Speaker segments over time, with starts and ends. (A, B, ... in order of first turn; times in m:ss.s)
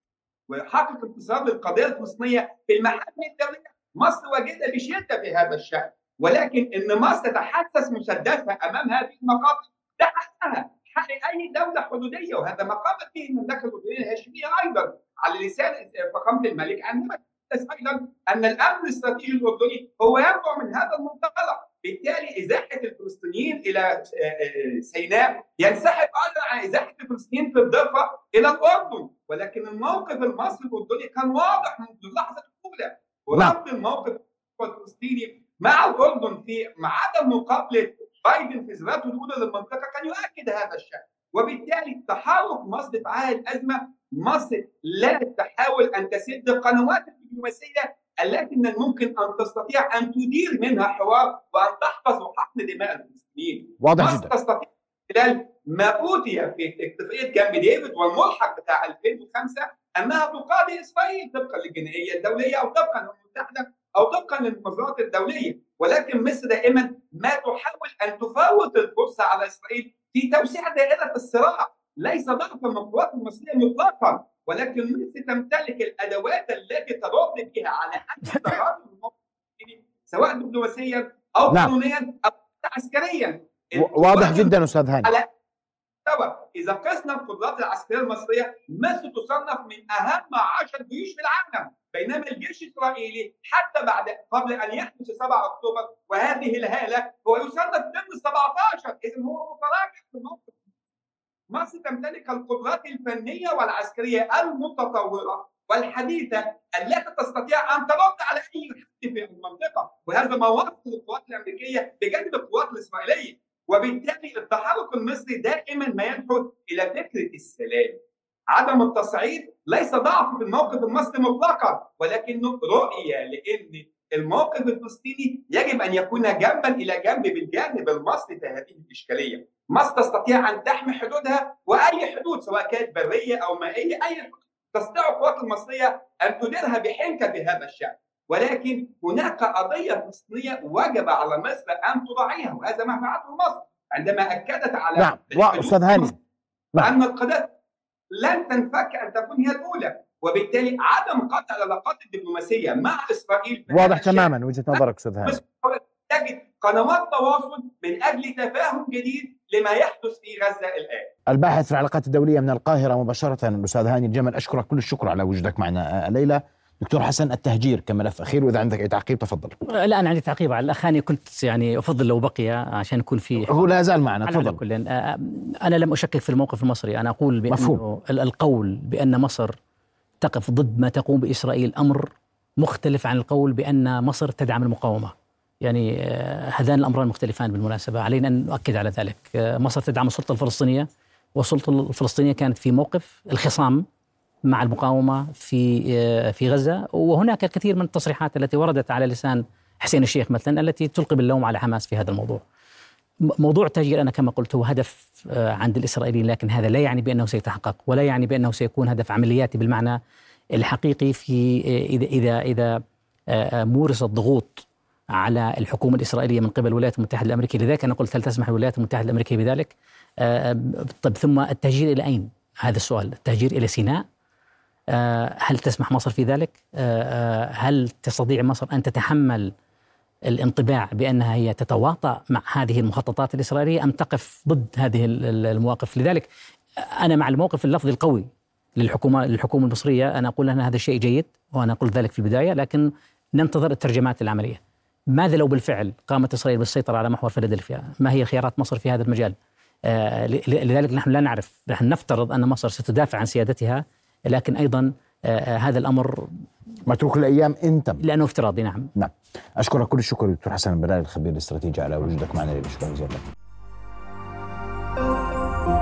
0:00.5-1:25.3 A
0:33.3-0:33.6 B
0:53.8-0:54.3 B
1:21.5-1:21.7 B
1:23.7-1:25.2 B
1:26.0-1:40.6 A
1:41.5-1:58.0 A
1:58.5-2:26.1 A
2:25.0-2:26.1 B
2:26.8-2:27.5 A
2:28.1-2:41.1 A
2:33.7-2:35.4 B
2:41.3-2:49.6 B
2:49.7-2:53.7 C
2:53.5-2:54.6 B
2:54.2-2:59.5 C
2:57.5-2:57.8 B
3:00.2-3:13.8 C
3:14.4-3:22.4 C
3:23.4-3:30.0 C
3:30.5-3:32.8 C
3:33.3-3:44.0 C
3:44.9-3:49.5 C
3:50.3-3:56.3 C
3:56.8-4:04.6 C
4:05.1-4:16.3 C
4:16.9-4:18.0 B
4:18.0-4:18.9 C
4:19.0-4:23.3 B